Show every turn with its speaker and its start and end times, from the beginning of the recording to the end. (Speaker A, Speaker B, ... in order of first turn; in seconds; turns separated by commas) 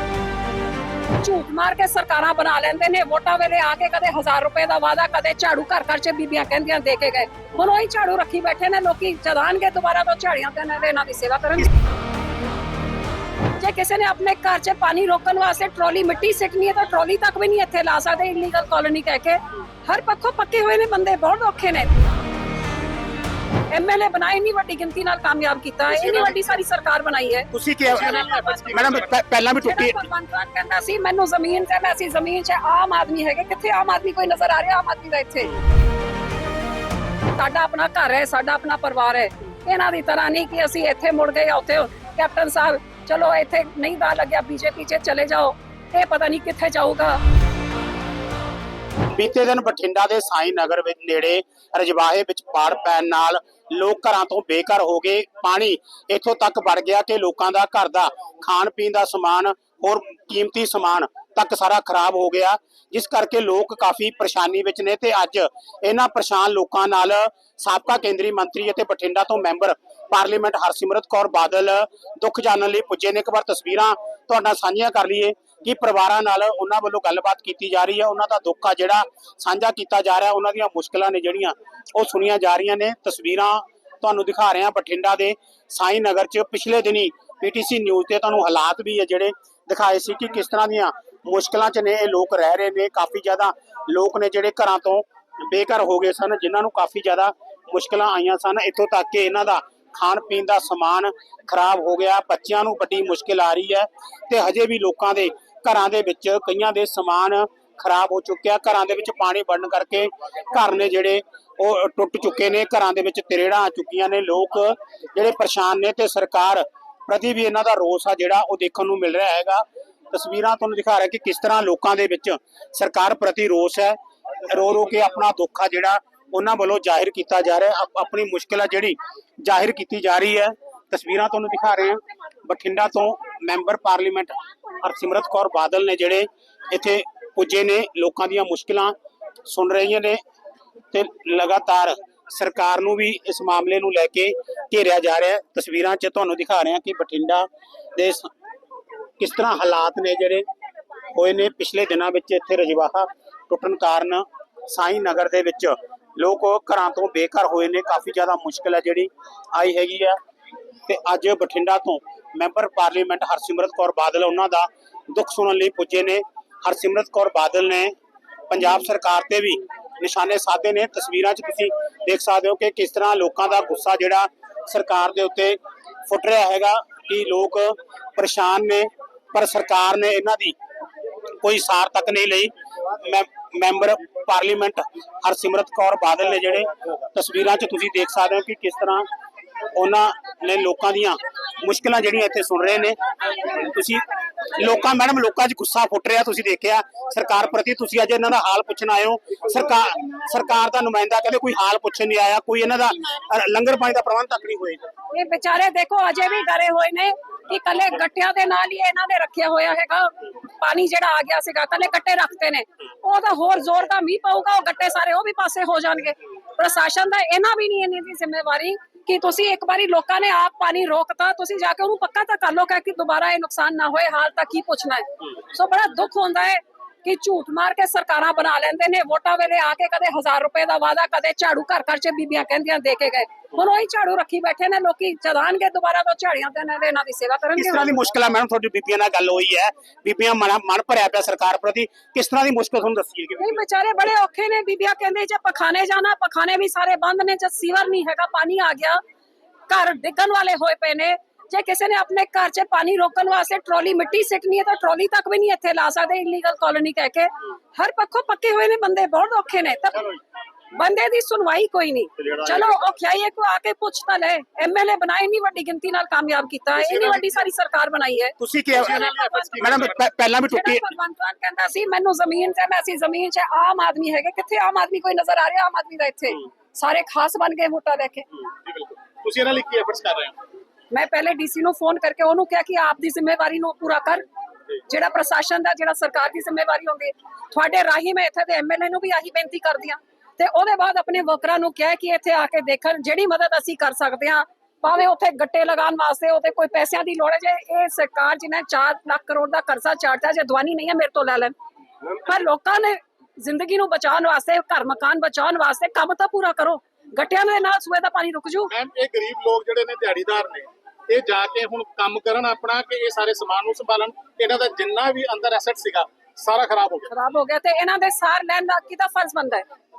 Speaker A: 1.2-11.7, Speaker A: 13.6-21.9, Speaker A: 23.7-28.7, Speaker B: 25.9-26.4, Speaker C: 27.5-28.2, Speaker B: 27.9-29.1, Speaker C: 28.7-30.0, Speaker A: 29.6-35.5, Speaker A: 37.4-47.2, Speaker C: 49.1-138.9, Speaker C: 139.5-140.2, Speaker C: 140.9-148.3, Speaker C: 149.2-150.4, Speaker C: 151.1-160.2, Speaker C: 160.9-167.9, Speaker C: 168.5-180.6, Speaker C: 181.4-189.1, Speaker C: 189.8-204.8, Speaker A: 205.1-238.0, Speaker C: 237.6-243.6, Speaker A: 243.4-249.0, Speaker A: 249.7-260.2, Speaker A: 260.7-269.9, Speaker B: 266.8-267.3, Speaker C: 268.4-269.0, Speaker B: 268.7-270.0, Speaker C: 269.6-270.9, Speaker A: 270.5-278.3, Speaker B: 278.6-280.4, Speaker A: 280.9-284.2, Speaker A: 284.9-301.6, Speaker A: 302.1-308.7, Speaker B: 308.7-317.1, Speaker A: 317.1-319.7